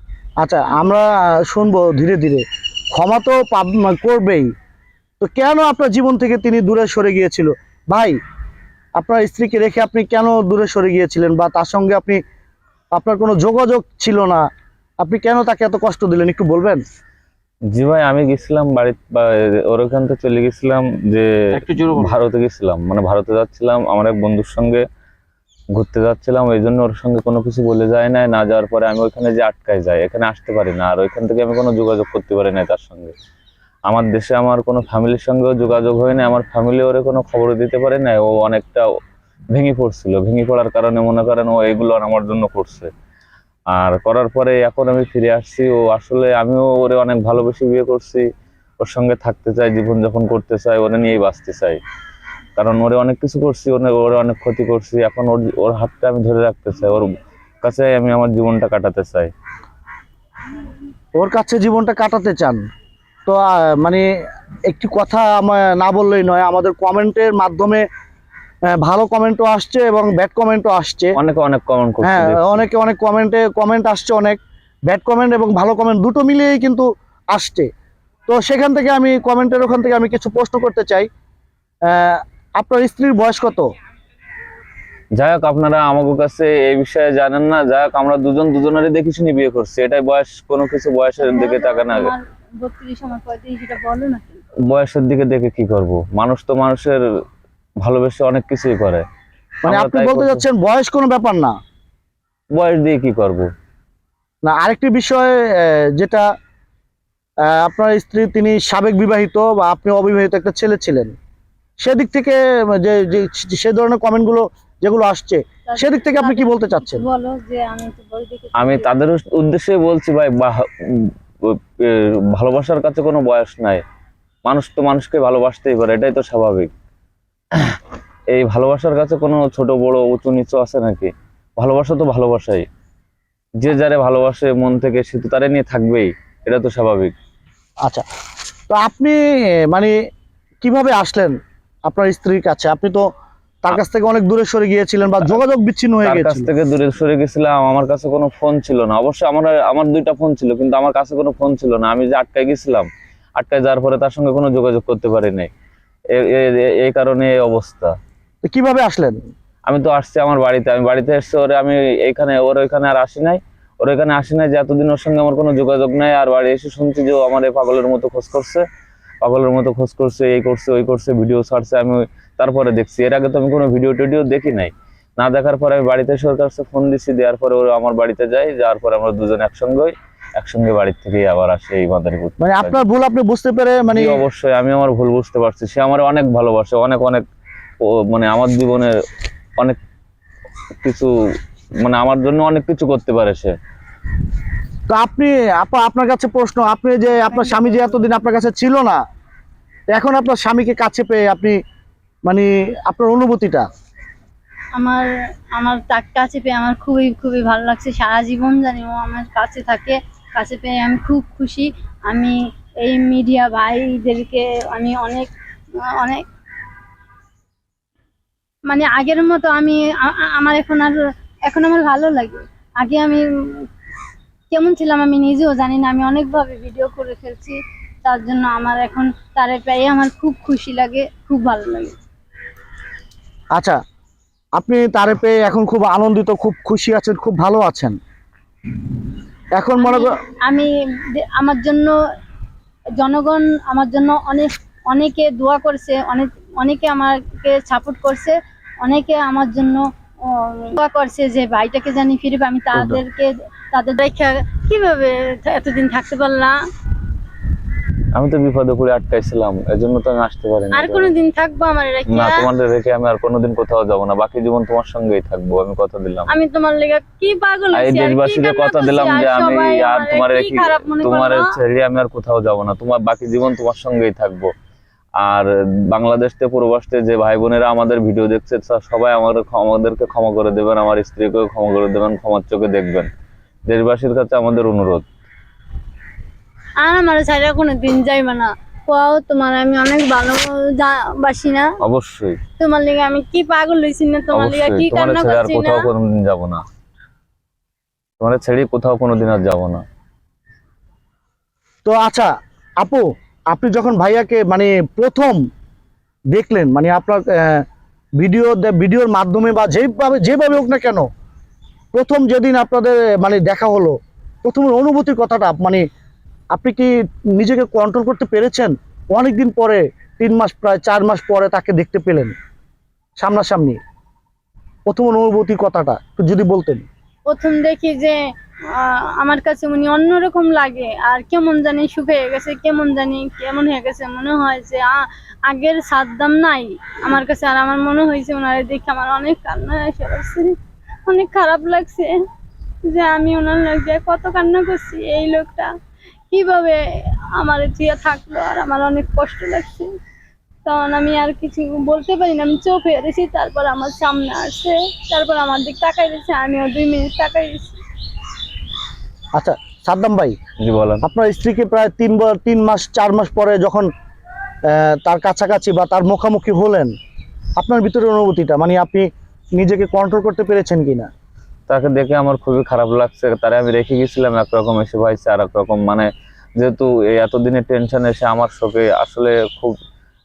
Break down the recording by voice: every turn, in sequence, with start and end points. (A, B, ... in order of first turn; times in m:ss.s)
0:00.4-0:04.5 A
0:05.2-0:08.2 A
0:09.0-0:12.2 A
0:12.9-0:14.4 A
0:15.0-0:16.8 A
0:17.7-0:24.8 B
0:25.7-0:33.1 B
0:33.9-0:38.8 B
0:39.5-0:42.9 B
0:43.7-0:48.2 B
0:48.8-0:51.8 B
0:52.6-0:57.1 B
0:57.6-0:59.3 B
1:01.2-1:02.6 A
1:03.2-1:04.1 A
1:04.7-1:07.9 A
1:08.7-1:11.1 A
1:11.2-1:12.7 B
1:12.0-1:17.7 A
1:18.3-1:21.1 A
1:21.9-1:23.7 A
1:25.2-1:32.1 B
1:31.2-1:34.4 C
1:34.6-1:37.0 B
1:37.8-1:39.0 B
1:39.6-1:41.6 A
1:39.7-1:40.4 B
1:42.5-1:43.5 B
1:44.4-1:46.3 A
1:47.4-1:51.1 A
1:51.8-1:57.0 A
1:55.7-1:58.9 C
1:58.6-2:03.8 B
2:04.4-2:06.7 B
2:08.3-2:12.7 B
2:13.6-2:17.1 B
2:18.7-2:19.9 A
2:20.6-2:23.1 A
2:23.6-2:26.5 A
2:26.0-2:35.5 B
2:36.1-2:37.9 B
2:38.4-2:39.2 A
2:39.6-2:48.6 B
2:49.2-3:02.8 B
3:02.4-3:04.2 A
3:03.9-3:07.2 B
3:07.8-3:08.9 B
3:10.8-3:11.1 B
3:11.8-3:13.5 B
3:14.9-3:19.0 A
3:17.3-3:18.0 C
3:19.9-3:21.6 A
3:22.2-3:23.7 A
3:24.8-3:35.3 C
3:35.9-3:36.2 C
3:38.7-3:43.7 C
3:44.5-3:52.0 C
3:54.6-3:58.0 A
3:59.6-4:00.1 A
3:59.8-4:01.9 C
4:03.0-4:16.6 C
4:12.7-4:13.0 B
4:18.1-4:21.1 B
4:20.7-4:22.5 C
4:22.1-4:26.3 B
4:26.3-4:31.5 C
4:27.7-4:34.5 B
4:35.2-4:43.1 B
4:43.7-4:45.0 B
4:46.8-4:51.7 C
4:51.8-4:52.4 B
4:52.6-4:55.8 C
4:54.3-4:56.6 B
4:58.2-4:59.8 B
5:01.8-5:05.4 A
5:06.3-5:07.6 A
5:08.2-5:11.1 A
5:11.9-5:15.8 A
5:16.5-5:22.3 A
5:23.2-5:23.8 A
5:24.9-5:26.8 A
5:27.3-5:28.2 C
5:28.7-5:40.6 C
5:41.1-5:42.2 C
5:42.8-5:45.7 C
5:46.3-5:46.8 C
5:47.3-5:49.9 C
5:50.6-5:57.8 C
5:59.3-6:00.4 A
6:00.6-6:01.0 B
6:01.0-6:03.9 A
6:04.6-6:06.9 A
6:07.6-6:11.1 A
6:11.7-6:19.8 B